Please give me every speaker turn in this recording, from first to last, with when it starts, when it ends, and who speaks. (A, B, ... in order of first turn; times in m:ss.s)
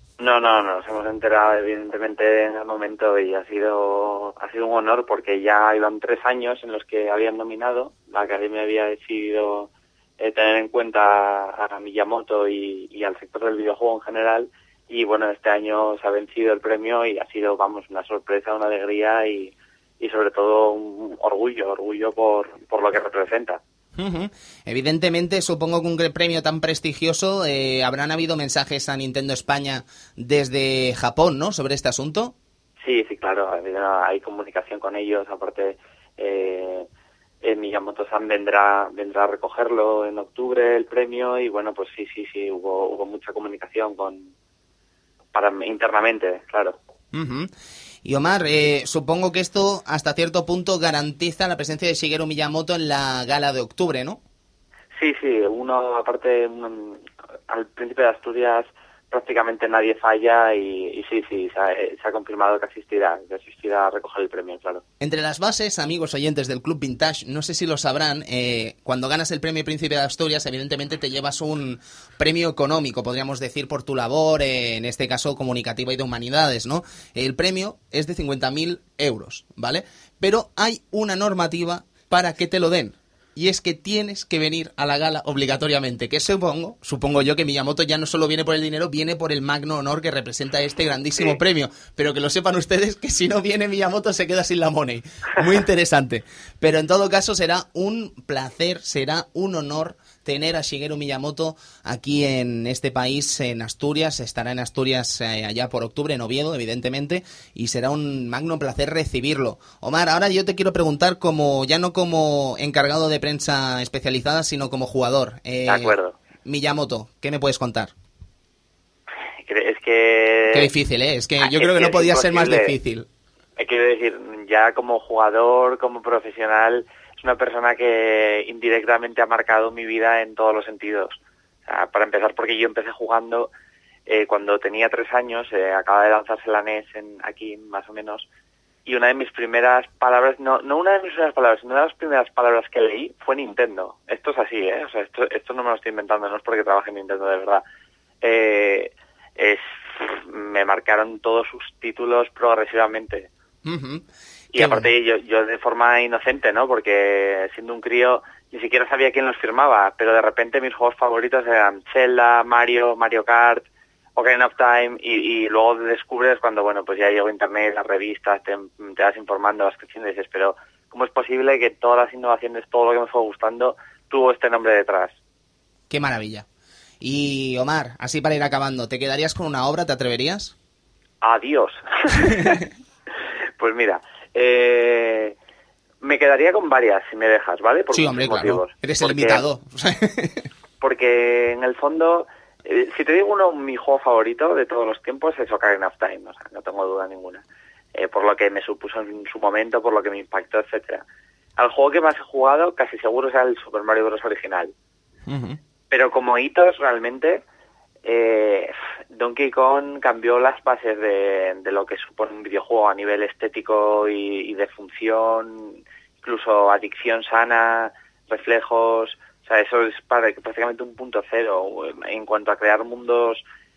0:00.2-0:09.7 A
0:10.2-0:23.6 A
0:24.0-0:32.4 B
0:32.8-0:36.9 A
0:37.4-0:44.3 A
0:45.3-0:46.8 A
0:47.1-0:47.5 B
0:48.0-0:54.2 B
0:55.0-1:04.8 A
1:05.0-1:57.9 B
1:55.7-1:56.1 A
1:59.5-2:00.7 A
2:00.5-2:03.1 B
2:01.4-2:02.8 A
2:03.6-2:13.5 A
2:14.1-2:18.3 A
2:18.9-2:27.6 A
2:28.2-2:33.3 A
2:33.6-2:34.0 B
2:34.5-2:43.6 A
2:34.6-2:34.9 B
2:44.2-2:55.1 A
2:55.9-2:56.5 B
2:57.0-3:00.5 B
3:01.2-3:02.6 A
3:02.2-3:02.6 B
3:03.6-3:05.4 A
3:06.0-3:09.4 A
3:07.9-3:10.5 B
3:10.8-3:17.4 A
3:18.0-3:21.0 A
3:21.6-3:24.7 A
3:25.3-3:25.6 B
3:25.9-3:27.4 A
3:28.0-3:43.4 A